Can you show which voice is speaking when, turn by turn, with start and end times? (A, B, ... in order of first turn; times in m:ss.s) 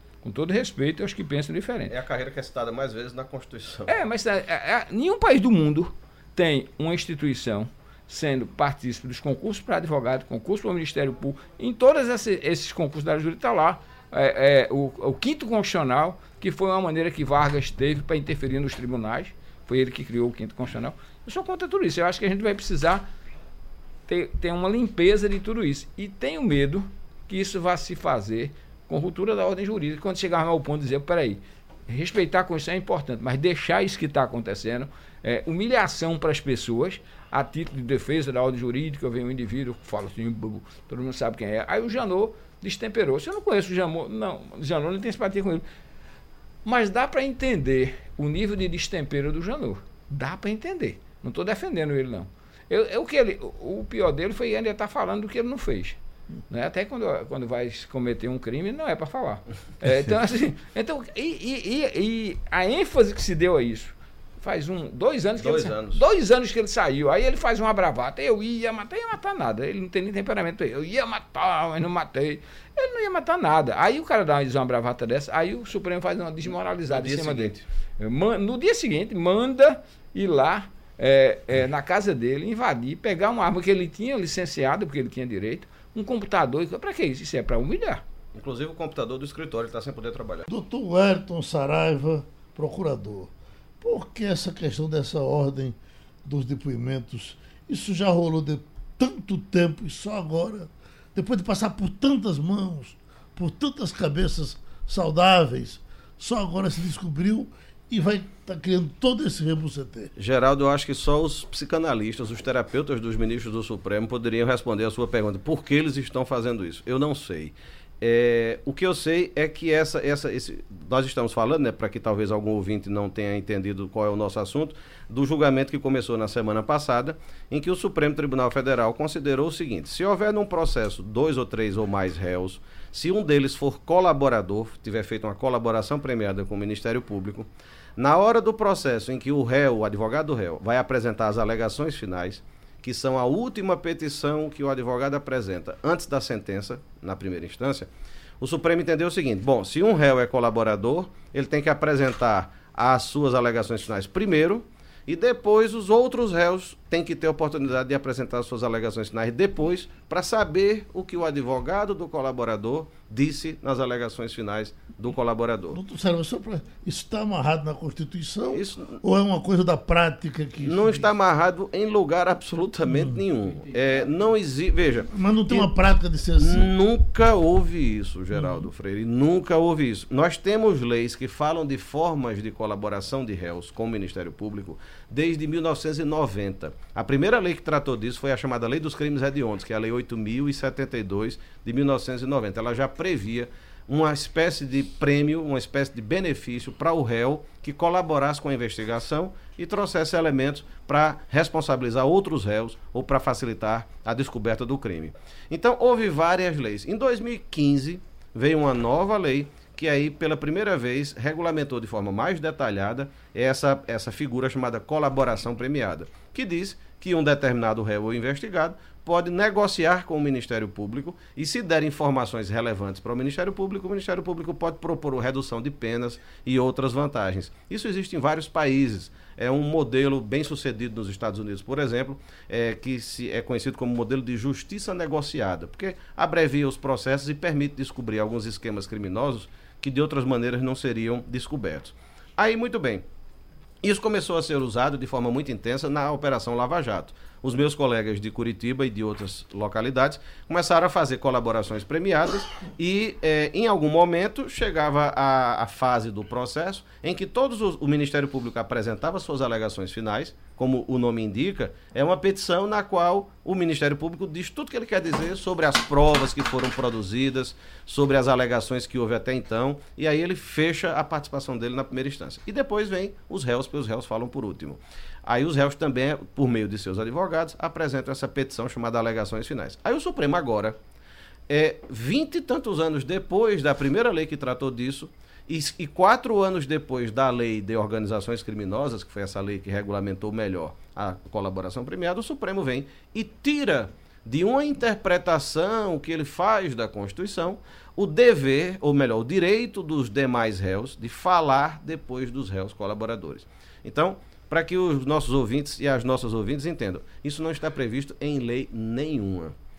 0:00.2-0:01.9 A
0:01.9-0:03.9 B
0:03.9-0:23.1 A
0:24.1-0:45.6 A
0:46.6-0:56.0 A
0:56.5-1:28.0 A
1:05.4-1:06.0 B
1:16.9-1:17.6 B
1:28.3-1:30.5 B
1:30.5-1:50.1 C
1:50.2-2:27.9 B
2:28.4-2:45.8 B
2:45.7-2:51.1 C
2:48.5-2:49.0 B
2:50.6-2:55.7 B
2:52.8-2:53.2 C
2:55.1-2:56.7 C
2:56.4-4:03.0 B
2:58.3-2:58.7 C
4:03.8-4:40.8 B
4:41.5-5:09.5 B